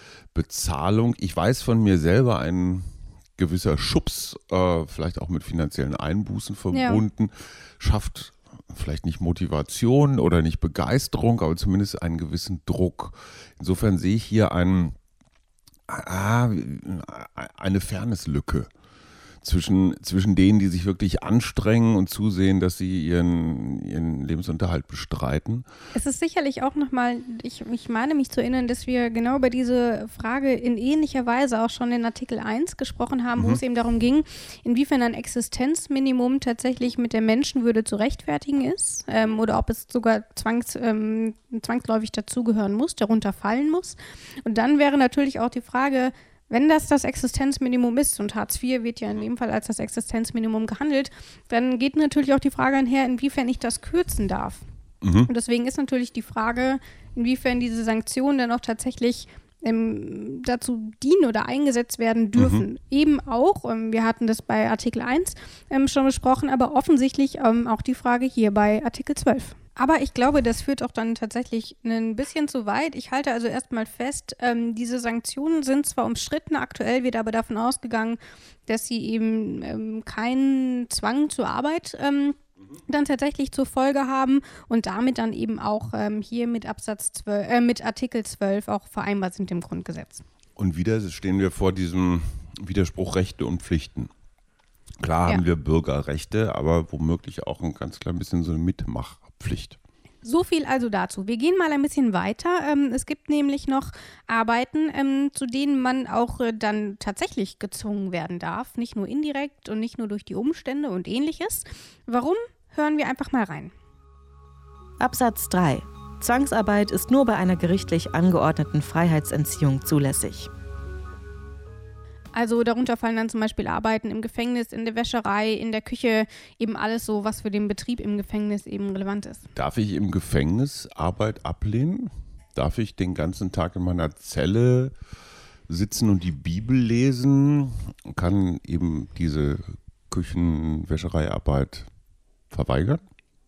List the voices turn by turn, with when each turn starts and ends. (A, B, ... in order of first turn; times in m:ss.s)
0:00.3-0:15.0 A
0:06.7-0:07.0 B
0:15.9-0:18.7 A
0:19.4-0:25.7 A
0:25.9-0:54.6 B
0:55.0-0:55.3 A
0:55.2-1:30.2 B
1:02.4-1:02.6 A
1:30.6-1:34.1 A
1:35.0-1:39.8 A
1:40.2-1:53.7 B
1:55.0-2:00.5 C
2:02.3-2:09.4 B
2:09.5-2:14.9 A
2:15.7-2:21.9 A
2:22.5-2:23.0 A